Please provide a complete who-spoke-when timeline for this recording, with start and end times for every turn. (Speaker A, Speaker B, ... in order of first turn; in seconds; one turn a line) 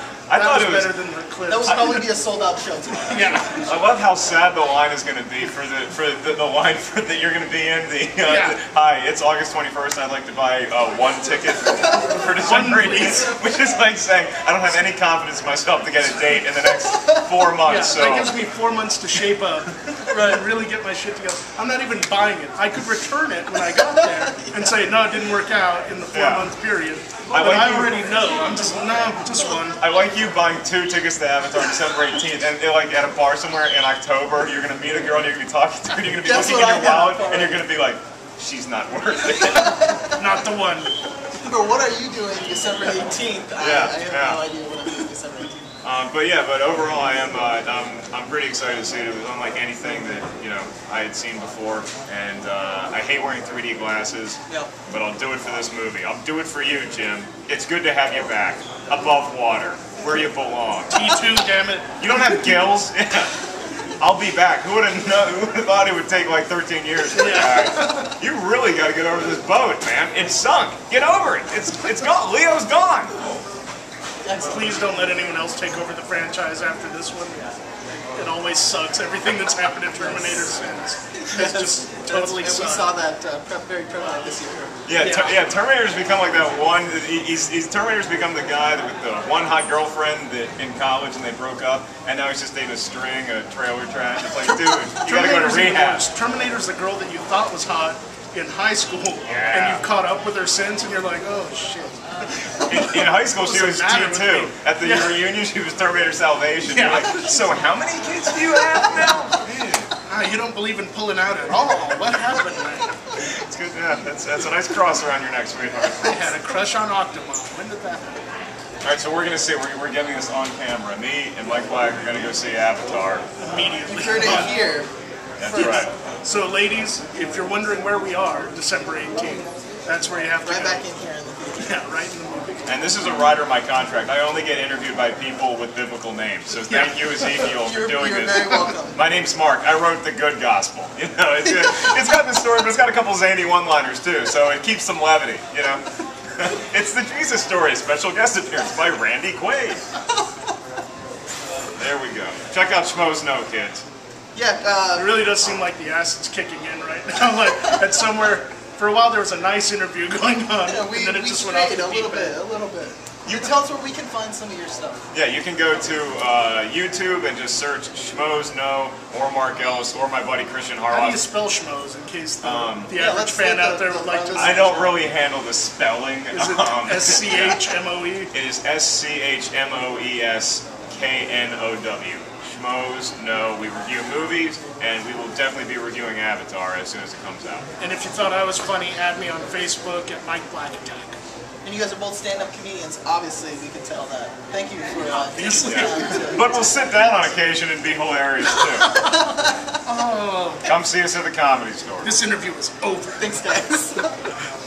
Speaker A: 0.3-0.9
Speaker B: 0.3-2.0
Speaker C: 1.5-3.5
Speaker A: 1.7-1.9
Speaker B: 3.1-3.7
Speaker A: 3.6-18.4
Speaker B: 8.2-8.6
Speaker B: 12.4-13.3
Speaker C: 16.6-17.5
Speaker B: 17.6-29.8
Speaker C: 20.1-20.4
Speaker C: 23.8-24.9
Speaker A: 26.1-26.5
Speaker A: 27.3-28.3
Speaker A: 29.8-39.9
Speaker C: 36.2-37.6
Speaker C: 39.4-40.2
Speaker B: 40.2-40.9
Speaker C: 41.4-45.7
Speaker A: 43.6-44.4
Speaker A: 45.8-61.0
Speaker B: 60.9-62.7
Speaker A: 62.0-63.3
Speaker A: 64.0-73.1
Speaker B: 67.1-68.1
Speaker C: 74.2-74.6
Speaker B: 74.4-77.4
Speaker B: 78.1-82.9
Speaker C: 79.9-80.5
Speaker C: 81.1-84.8
Speaker A: 84.8-96.0
Speaker B: 85.0-85.5
Speaker B: 95.0-105.2
Speaker A: 99.3-99.8
Speaker A: 102.7-109.9
Speaker B: 106.6-107.6
Speaker B: 110.0-112.9
Speaker A: 113.2-116.3
Speaker B: 116.0-118.2
Speaker A: 118.8-123.2
Speaker B: 123.4-124.6
Speaker C: 123.9-124.9
Speaker A: 125.4-125.9
Speaker C: 125.4-125.9
Speaker B: 125.5-130.8
Speaker C: 130.4-131.8
Speaker B: 131.6-132.8
Speaker A: 132.7-145.8
Speaker B: 136.7-137.3
Speaker C: 137.6-139.0
Speaker A: 146.3-149.8
Speaker A: 151.8-153.8
Speaker C: 154.3-155.2
Speaker B: 154.9-162.4
Speaker C: 160.7-165.0
Speaker A: 163.2-163.5
Speaker A: 165.1-171.2
Speaker B: 170.9-174.7
Speaker A: 172.4-172.9
Speaker C: 172.9-175.0
Speaker A: 174.3-177.6
Speaker B: 176.3-178.3
Speaker A: 178.3-187.7
Speaker B: 187.8-191.2
Speaker C: 191.6-196.6
Speaker B: 195.1-196.5
Speaker A: 195.6-198.9
Speaker C: 198.8-199.6
Speaker B: 199.8-200.7
Speaker A: 200.6-202.1
Speaker B: 202.0-203.5
Speaker C: 203.2-204.1